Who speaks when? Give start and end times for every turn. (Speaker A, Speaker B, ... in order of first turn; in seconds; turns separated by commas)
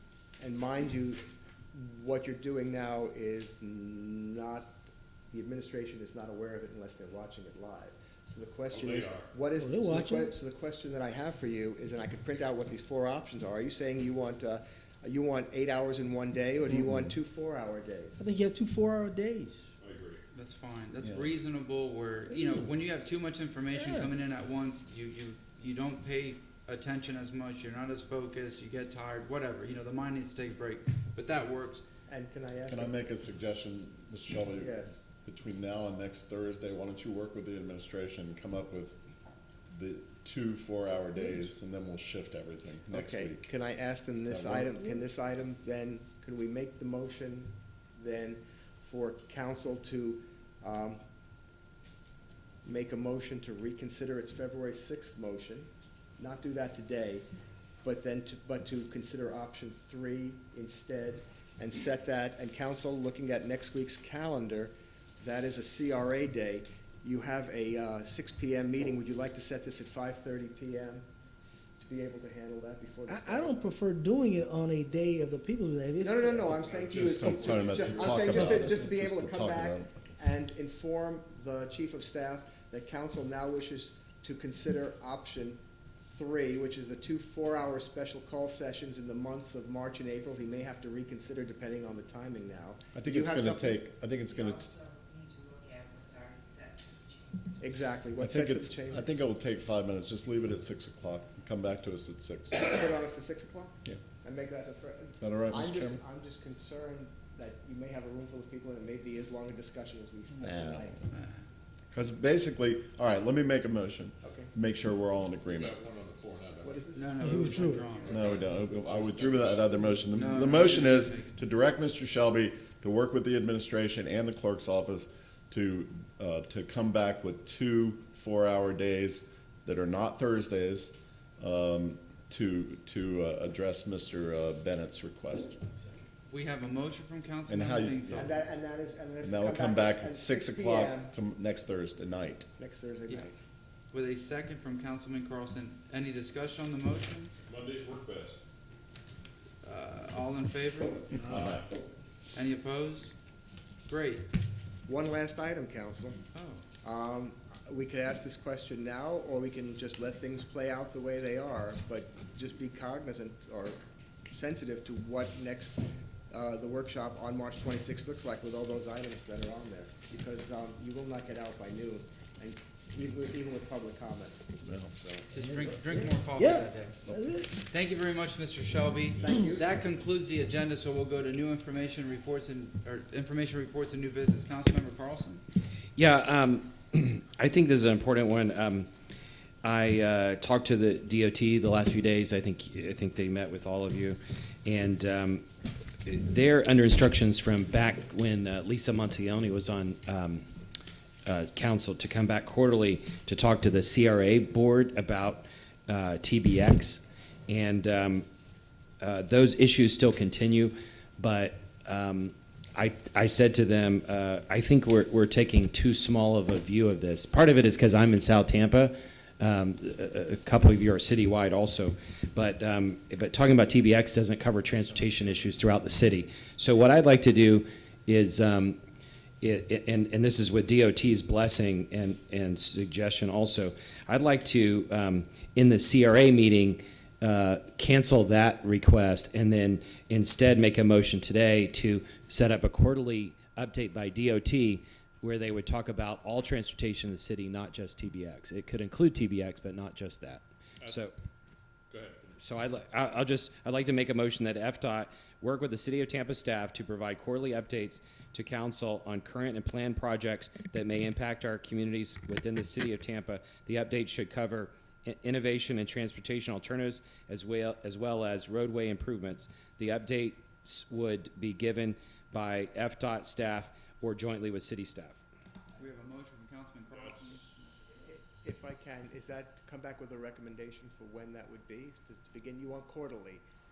Speaker A: 0.4-1.2, Speaker A: 1.7-4.8, Speaker A: 5.3-18.2, Speaker B: 8.7-9.3, Speaker C: 9.6-10.3, Speaker C: 18.2-19.7, Speaker B: 19.8-20.2, Speaker D: 20.3-31.8, Speaker C: 22.3-22.7, Speaker C: 23.7-24.1, Speaker A: 32.1-33.1, Speaker E: 32.7-39.0, Speaker A: 34.5-35.0, Speaker E: 39.7-43.5, Speaker A: 42.9-51.0, Speaker E: 44.3-44.8, Speaker A: 52.6-55.7, Speaker A: 56.2-57.2, Speaker A: 57.8-71.0, Speaker A: 71.8-73.8, Speaker C: 73.1-76.5, Speaker A: 76.0-93.8, Speaker E: 76.8-79.9, Speaker B: 76.9-78.1, Speaker E: 92.9-94.8, Speaker F: 94.8-97.2, Speaker A: 97.6-99.1, Speaker E: 98.2-102.8, Speaker A: 102.5-111.0, Speaker E: 105.2-106.0, Speaker E: 110.4-111.0, Speaker E: 111.9-115.7, Speaker A: 114.2-114.5, Speaker B: 115.5-116.9, Speaker A: 116.6-118.2, Speaker D: 116.9-118.4, Speaker C: 117.2-117.8, Speaker E: 118.0-135.9, Speaker B: 118.1-120.3, Speaker D: 120.2-121.4, Speaker D: 136.3-138.4, Speaker E: 137.5-138.3, Speaker A: 138.1-141.1, Speaker E: 139.2-142.5, Speaker A: 142.6-143.3, Speaker D: 143.9-147.3, Speaker B: 147.4-148.4, Speaker D: 149.6-151.1, Speaker B: 151.3-151.7, Speaker E: 151.3-151.6, Speaker D: 152.3-153.1, Speaker D: 153.9-154.2, Speaker A: 154.9-156.2, Speaker D: 156.3-156.6, Speaker A: 156.8-174.4, Speaker E: 174.6-175.0, Speaker A: 175.0-175.3, Speaker D: 175.3-177.0, Speaker C: 175.4-177.6, Speaker D: 177.6-185.4, Speaker A: 179.2-179.8, Speaker G: 185.9-188.9, Speaker G: 189.6-195.4, Speaker G: 196.0-200.4, Speaker G: 201.2-208.2, Speaker G: 209.0-228.8, Speaker G: 229.4-251.1, Speaker B: 251.9-252.4, Speaker G: 252.4-275.2, Speaker D: 275.8-277.9, Speaker A: 278.0-283.4